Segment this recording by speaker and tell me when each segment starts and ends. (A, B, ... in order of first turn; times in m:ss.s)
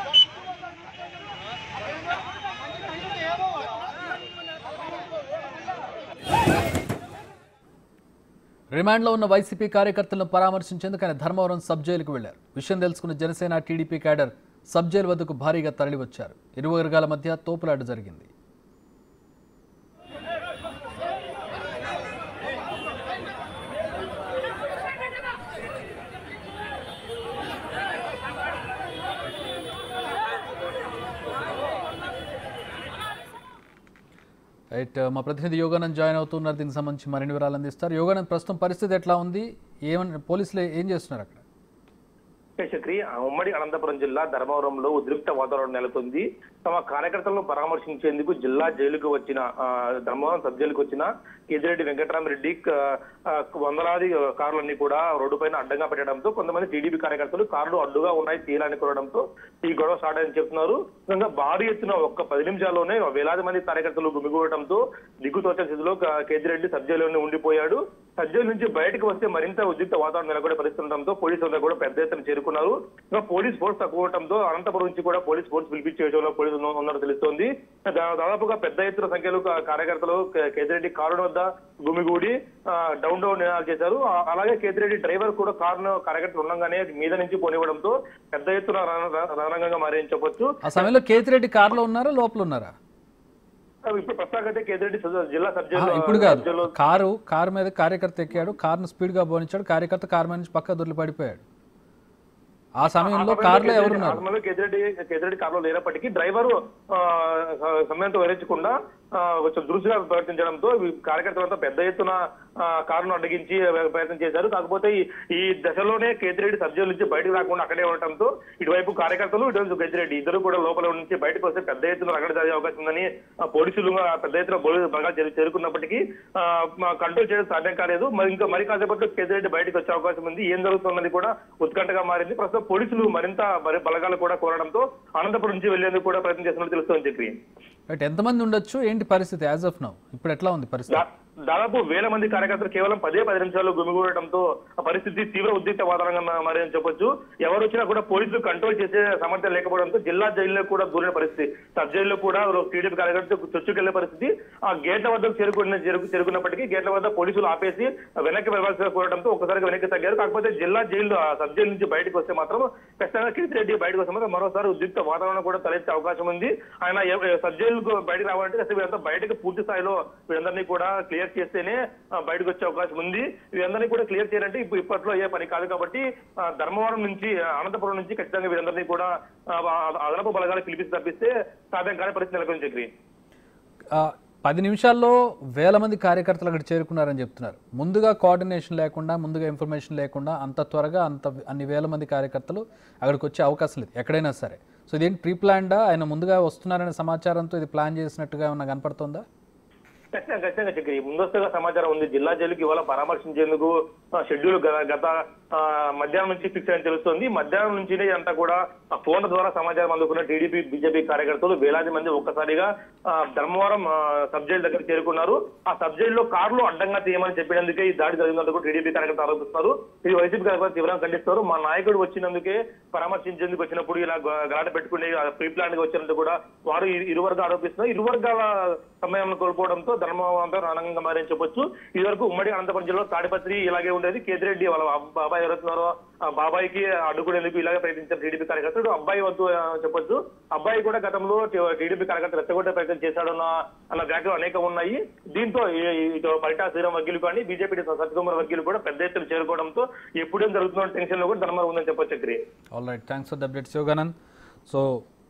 0:08.7-0:18.3 A
0:34.7-0:41.4 A
0:42.6-1:30.9 B
1:30.6-1:32.7 A
1:33.9-1:36.7 B
1:35.7-1:41.4 A
1:42.8-1:44.2 A
1:43.0-2:17.3 B
2:17.9-2:21.0 A
2:20.9-3:02.9 B
3:03.9-3:19.2 A
3:20.1-4:12.4 B
4:12.7-4:14.1 A
4:14.7-4:15.0 A